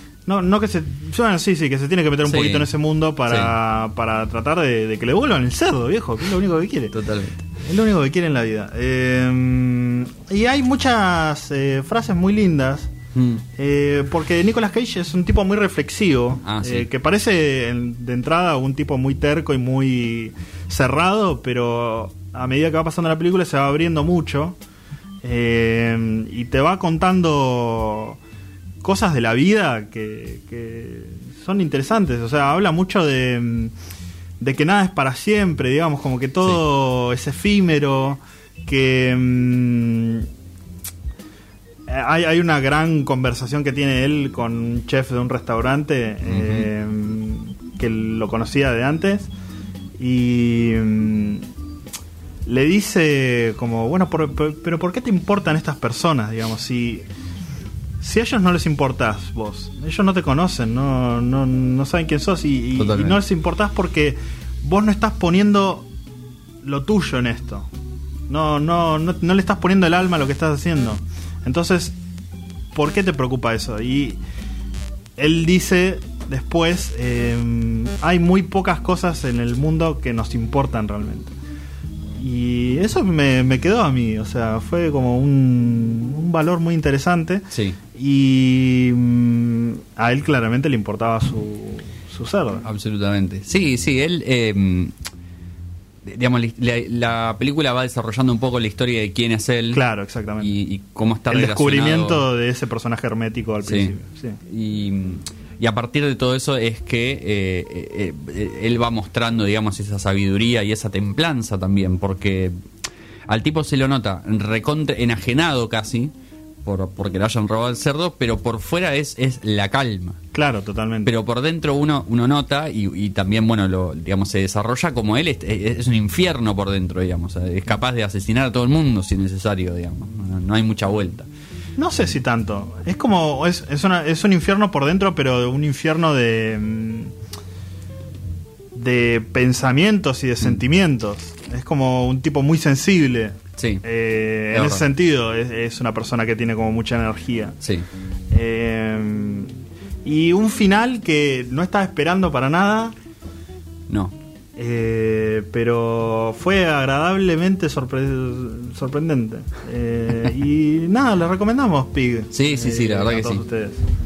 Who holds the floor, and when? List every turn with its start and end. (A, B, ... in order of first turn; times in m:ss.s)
0:00.2-0:06.9 A
0:02.2-0:02.7 B
0:03.3-0:03.5 B
0:06.9-0:07.4 B
0:07.6-0:12.9 A
0:13.1-0:13.4 B
0:13.6-0:24.6 A
0:16.4-0:16.9 B
0:25.2-0:28.2 A
0:28.8-0:33.7 A
0:34.4-0:40.3 A
0:41.9-0:49.3 A
0:46.2-0:46.7 B
0:50.0-0:51.4 A
0:52.4-0:57.1 A
0:58.0-1:05.9 A
1:02.8-1:03.2 B
1:06.6-1:07.7 A
1:08.3-1:12.0 A
1:12.7-1:14.2 A
1:15.2-1:21.3 A
1:22.2-1:27.4 A
1:27.5-1:27.8 B
1:27.9-1:32.6 A
1:32.6-1:34.9 B
1:36.0-1:39.8 B
1:39.7-1:40.5 A
1:40.4-1:42.2 B
1:41.3-1:44.4 A
1:43.6-1:43.9 B
1:44.5-1:52.5 B
1:53.3-1:56.1 B
1:56.6-2:00.2 B
2:00.3-2:01.1 A
2:01.0-2:11.3 B
2:11.8-2:17.1 A
2:18.7-2:27.6 A
2:23.6-2:23.8 B
2:24.5-2:24.8 B
2:27.6-2:27.9 B
2:28.3-2:29.5 A
2:30.0-2:32.9 A
2:33.9-2:34.1 B
2:34.6-2:43.8 A
2:42.3-2:43.4 B